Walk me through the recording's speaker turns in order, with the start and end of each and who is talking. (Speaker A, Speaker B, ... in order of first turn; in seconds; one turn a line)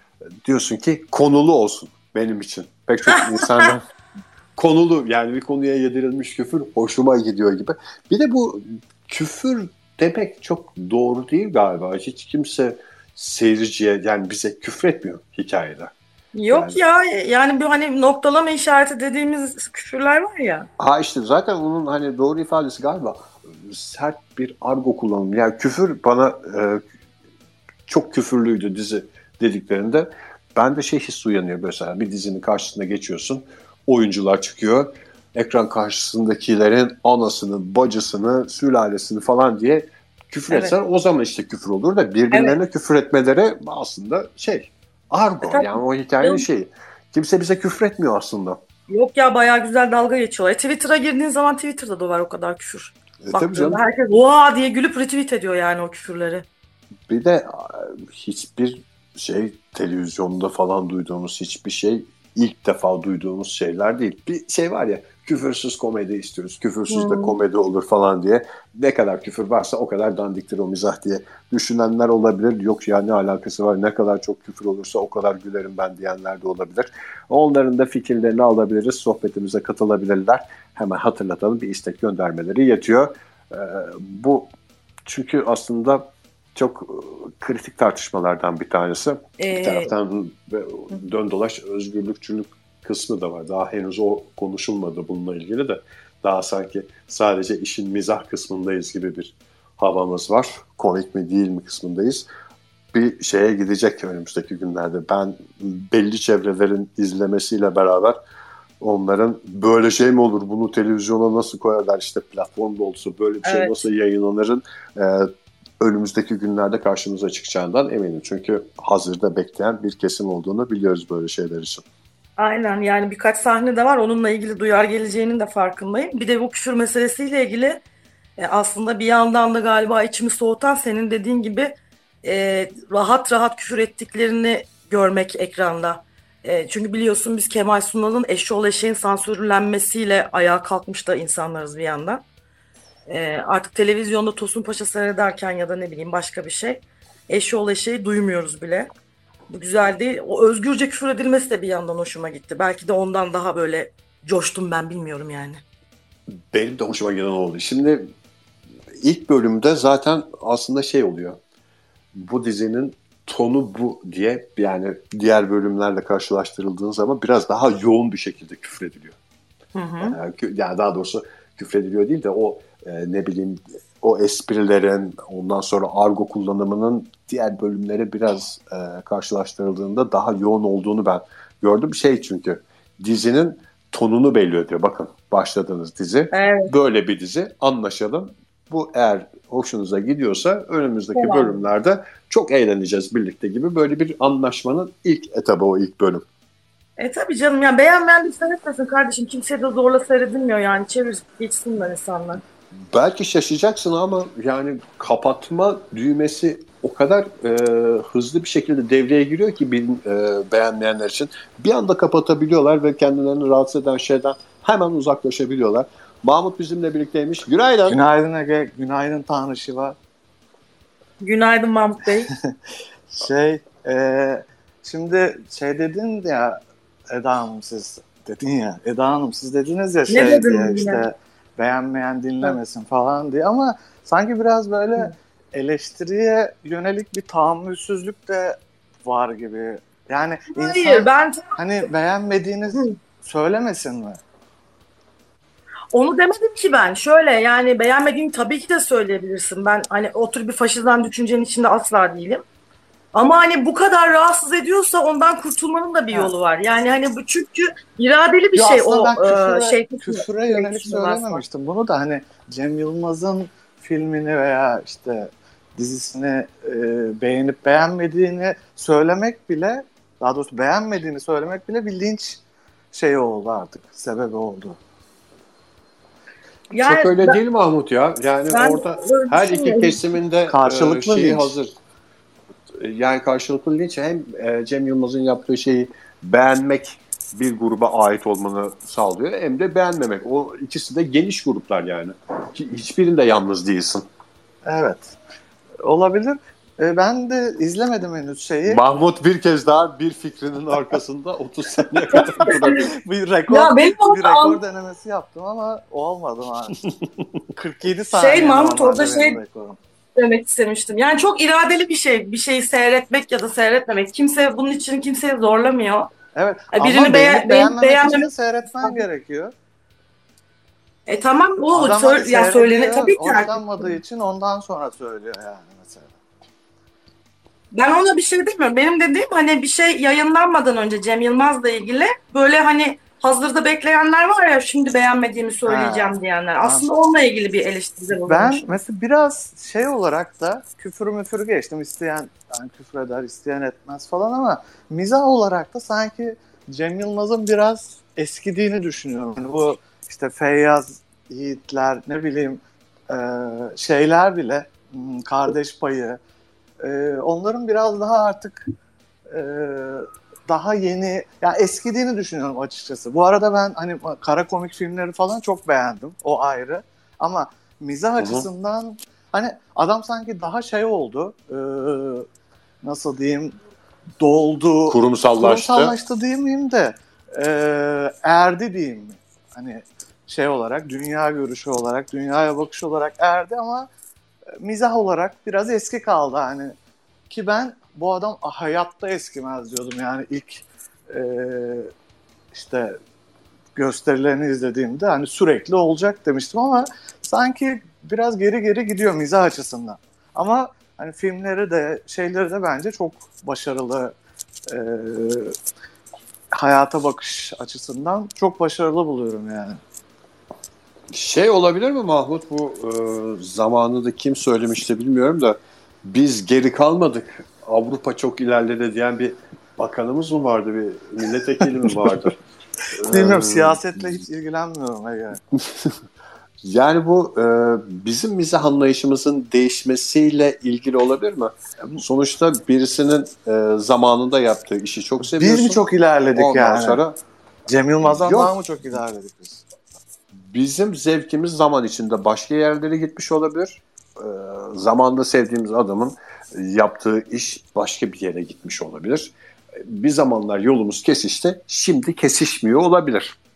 Speaker A: 0.4-3.8
Speaker B: 3.1-3.7
Speaker A: 4.5-15.9
Speaker B: 16.3-20.7
Speaker A: 16.5-16.8
Speaker A: 20.8-26.8
Speaker A: 27.9-48.6
Speaker B: 42.3-42.6
Speaker B: 45.4-46.4
Speaker B: 48.9-56.5
Speaker A: 53.2-53.8
Speaker A: 57.1-84.5
Speaker B: 66.9-67.3
Speaker A: 85.0-102.3
Speaker B: 89.4-89.9
Speaker A: 102.9-108.2
Speaker A: 108.8-121.8
Speaker B: 113.4-113.8
Speaker B: 122.4-127.8
Speaker B: 128.4-142.2
Speaker B: 143.1-148.9
Speaker B: 149.5-155.6
Speaker A: 156.3-158.1
Speaker A: 159.0-161.4
Speaker A: 162.1-169.2
Speaker B: 169.7-170.2
Speaker A: 170.1-196.2
Speaker B: 186.3-186.7
Speaker B: 191.1-191.6
Speaker B: 197.0-202.4
Speaker A: 202.9-218.0
Speaker C: 217.9-220.0
Speaker B: 221.2-222.3
Speaker C: 223.1-244.2
Speaker B: 230.1-231.0
Speaker B: 240.5-241.6
Speaker B: 245.9-252.4
Speaker B: 253.1-261.4
Speaker C: 258.5-272.4
Speaker C: 272.9-274.8
Speaker B: 276.7-277.4
Speaker A: 276.8-281.7
Speaker B: 278.5-280.0
Speaker C: 280.5-281.5
Speaker A: 282.8-294.1
Speaker C: 294.6-295.1
Speaker C: 295.8-298.8
Speaker A: 298.7-302.9
Speaker C: 302.0-306.8
Speaker B: 302.1-302.8
Speaker B: 303.5-304.6
Speaker C: 307.5-309.8
Speaker B: 308.1-309.4
Speaker B: 310.1-316.1
Speaker C: 316.3-319.5
Speaker B: 316.7-318.3
Speaker B: 321.1-323.9
Speaker C: 321.7-326.2
Speaker B: 327.7-338.7
Speaker C: 335.6-336.9
Speaker C: 338.3-356.2
Speaker C: 356.8-358.7
Speaker C: 359.3-372.2
Speaker A: 368.2-368.5
Speaker C: 372.8-373.6
Speaker C: 374.2-383.9
Speaker A: 374.9-375.9
Speaker C: 384.6-386.8
Speaker C: 387.3-391.9
Speaker C: 392.5-393.0
Speaker C: 393.8-404.1
Speaker C: 404.7-405.5
Speaker C: 406.5-409.8
Speaker A: 411.1-422.3
Speaker A: 422.9-424.2
Speaker C: 423.0-425.4
Speaker A: 425.6-425.9
Speaker A: 426.6-435.8
Speaker C: 435.2-437.0
Speaker A: 436.3-437.2
Speaker C: 437.7-439.6
Speaker A: 438.0-438.5
Speaker A: 440.3-453.4